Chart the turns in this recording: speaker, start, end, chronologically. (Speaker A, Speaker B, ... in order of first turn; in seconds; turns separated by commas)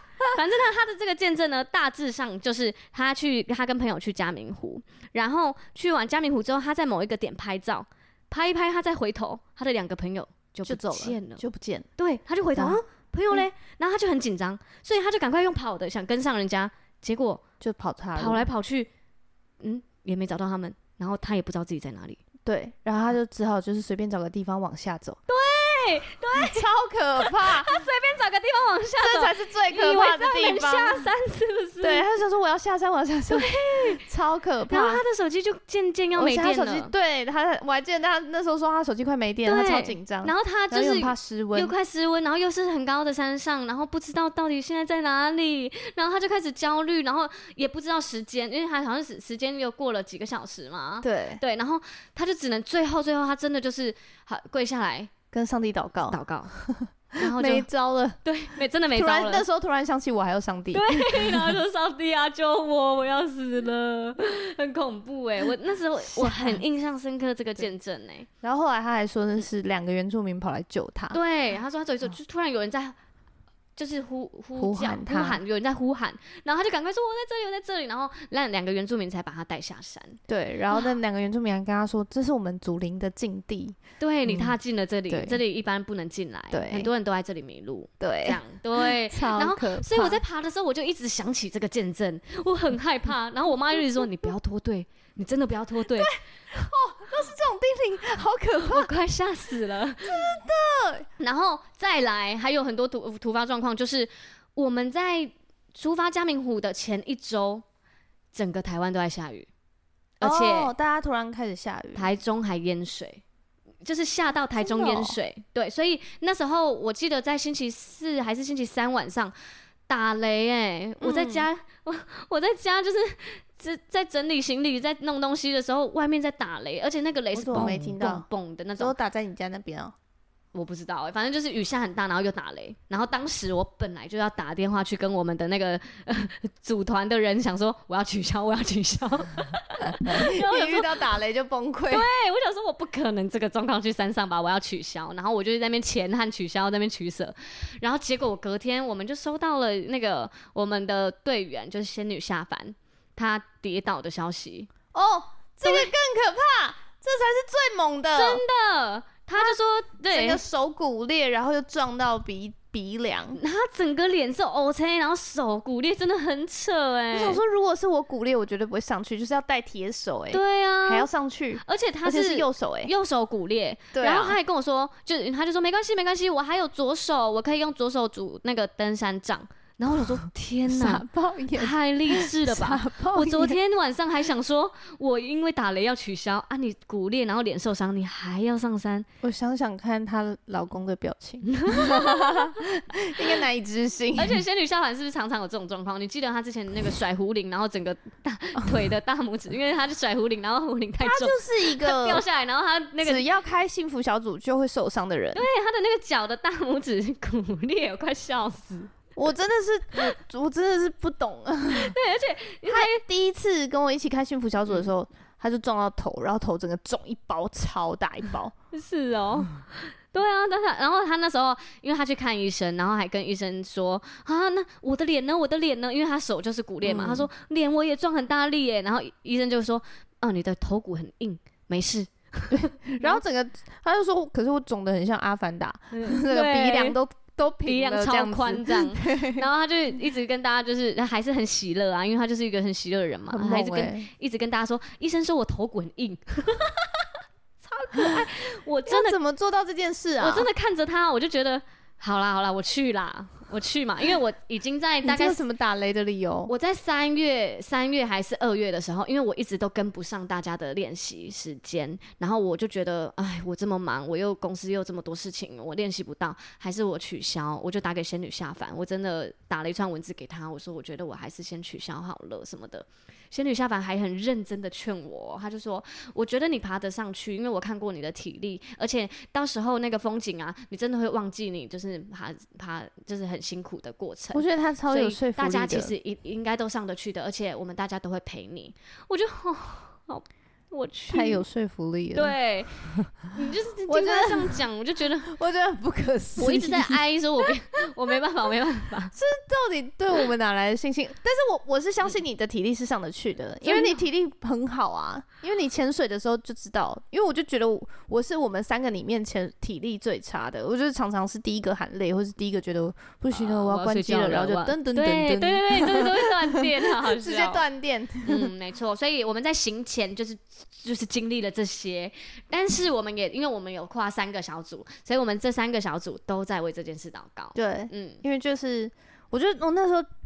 Speaker A: 0.3-11.4, Speaker B: 10.7-11.9, Speaker A: 12.0-17.4, Speaker B: 12.6-12.8, Speaker B: 17.6-18.4, Speaker A: 18.2-18.9, Speaker A: 19.6-22.2, Speaker B: 22.4-25.2, Speaker A: 25.3-26.7, Speaker B: 26.3-27.8, Speaker A: 27.2-32.1, Speaker B: 29.0-31.1, Speaker B: 31.8-35.0, Speaker A: 33.3-34.0, Speaker A: 34.7-36.9, Speaker B: 36.1-41.7, Speaker A: 39.5-55.1, Speaker B: 51.0-51.4, Speaker B: 55.3-58.2, Speaker A: 56.1-56.5, Speaker A: 57.2-57.7, Speaker A: 58.2-59.5, Speaker B: 58.9-61.6, Speaker A: 60.7-68.3, Speaker B: 66.0-66.6, Speaker B: 68.4-71.2, Speaker A: 71.1-73.0, Speaker A: 73.8-80.2, Speaker B: 74.6-75.4, Speaker B: 80.3-84.5, Speaker A: 84.0-96.1, Speaker B: 85.1-85.4, Speaker B: 86.5-86.9, Speaker B: 88.0-90.2, Speaker B: 95.9-98.9, Speaker A: 98.6-100.4, Speaker B: 100.0-101.1, Speaker A: 101.2-107.7, Speaker A: 108.3-109.5, Speaker A: 110.2-110.7, Speaker B: 110.2-112.1, Speaker A: 112.0-113.2, Speaker A: 113.8-119.3, Speaker B: 114.6-115.2, Speaker A: 119.9-128.9, Speaker B: 121.0-121.5, Speaker B: 127.3-129.9, Speaker A: 130.5-141.0, Speaker B: 139.9-142.1, Speaker A: 141.9-154.7, Speaker B: 154.9-158.4, Speaker A: 155.7-155.9, Speaker A: 158.2-160.4, Speaker B: 160.1-163.4, Speaker A: 163.3-167.4, Speaker B: 167.1-172.9, Speaker A: 170.3-171.1, Speaker A: 171.6-189.1, Speaker B: 173.9-174.4, Speaker B: 180.7-183.6, Speaker B: 189.2-194.4, Speaker A: 191.5-192.6, Speaker A: 194.2-203.2, Speaker B: 201.0-202.2, Speaker B: 203.0-205.4, Speaker A: 205.3-208.9, Speaker B: 209.2-211.9, Speaker A: 211.7-213.0, Speaker B: 212.7-218.5, Speaker A: 218.7-233.2, Speaker B: 226.8-227.3, Speaker B: 232.5-239.4, Speaker A: 235.9-237.0, Speaker A: 237.7-247.1, Speaker B: 243.3-244.1, Speaker A: 247.6-249.2, Speaker B: 248.0-248.2, Speaker B: 248.9-250.5, Speaker A: 250.2-255.4, Speaker B: 255.0-256.5, Speaker A: 256.5-291.4, Speaker B: 284.3-285.9, Speaker B: 291.1-292.4, Speaker A: 292.1-295.3, Speaker B: 293.9-294.6, Speaker B: 295.2-297.5, Speaker A: 296.4-299.1, Speaker B: 299.1-318.5, Speaker A: 303.6-304.0, Speaker A: 313.3-317.6, Speaker A: 318.2-328.2, Speaker B: 327.6-330.1